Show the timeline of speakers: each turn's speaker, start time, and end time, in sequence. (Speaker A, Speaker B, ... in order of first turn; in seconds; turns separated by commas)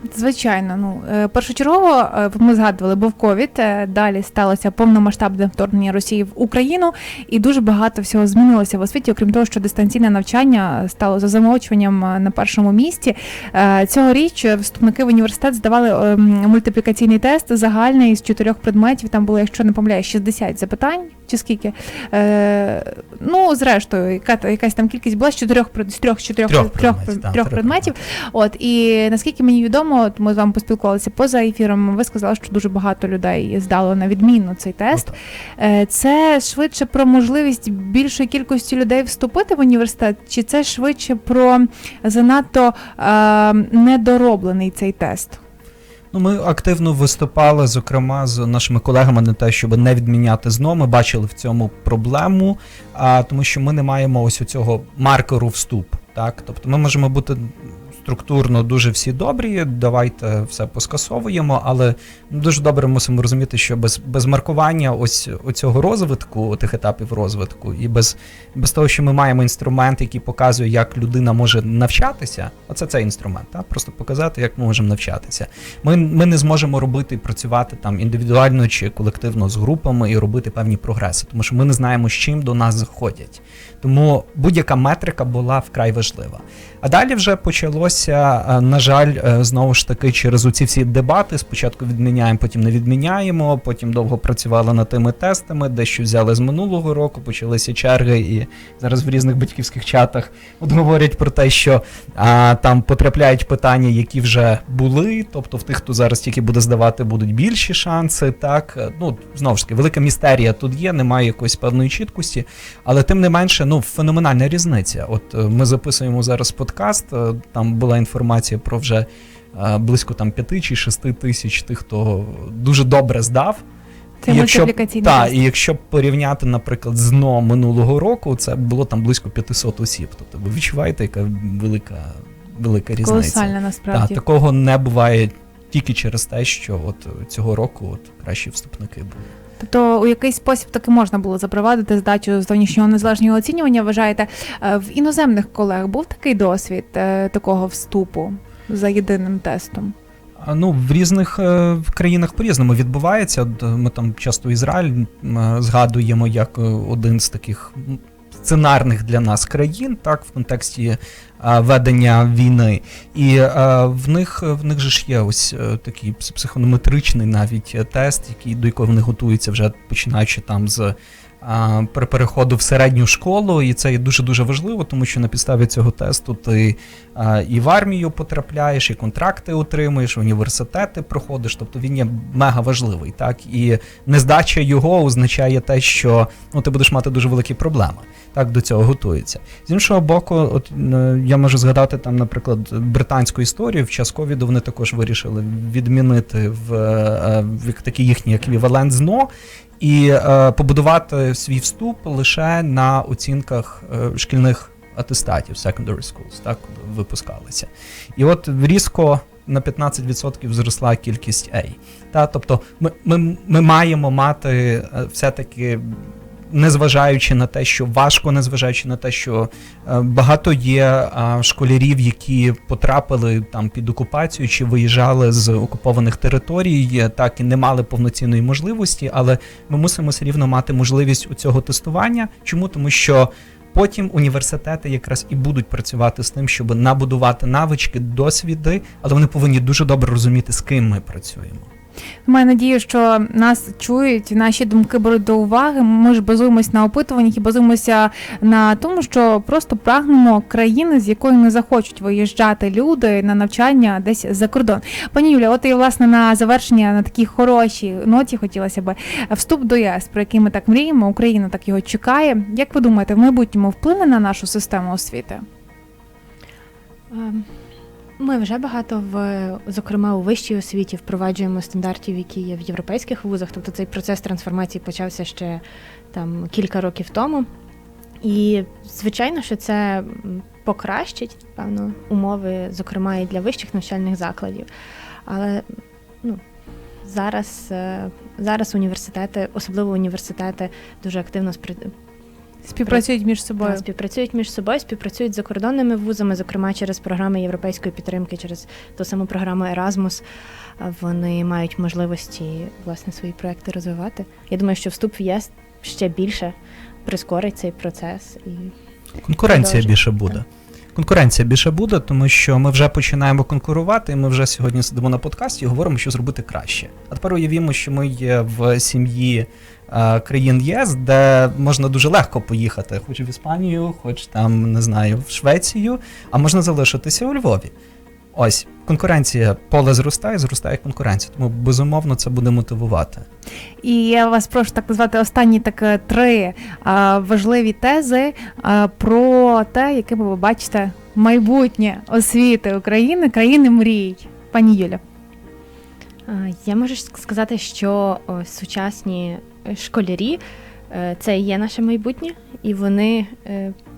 Speaker A: 0.1-45.4, Speaker B: 26.5-27.9, Speaker B: 46.1-123.6, Speaker A: 124.2-125.4, Speaker B: 124.2-139.3, Speaker A: 133.0-134.2, Speaker A: 139.6-149.9, Speaker B: 150.4-241.7, Speaker A: 242.2-265.4, Speaker C: 267.1-267.5, Speaker C: 268.2-275.6, Speaker C: 276.1-277.5, Speaker C: 278.2-284.7, Speaker C: 285.3-285.7, Speaker C: 287.0-291.9, Speaker A: 292.7-293.8, Speaker C: 293.6-300.2, Speaker C: 300.8-308.7, Speaker B: 309.2-327.7, Speaker C: 309.5-309.9, Speaker B: 328.3-333.3, Speaker A: 333.8-345.0, Speaker C: 346.3-353.7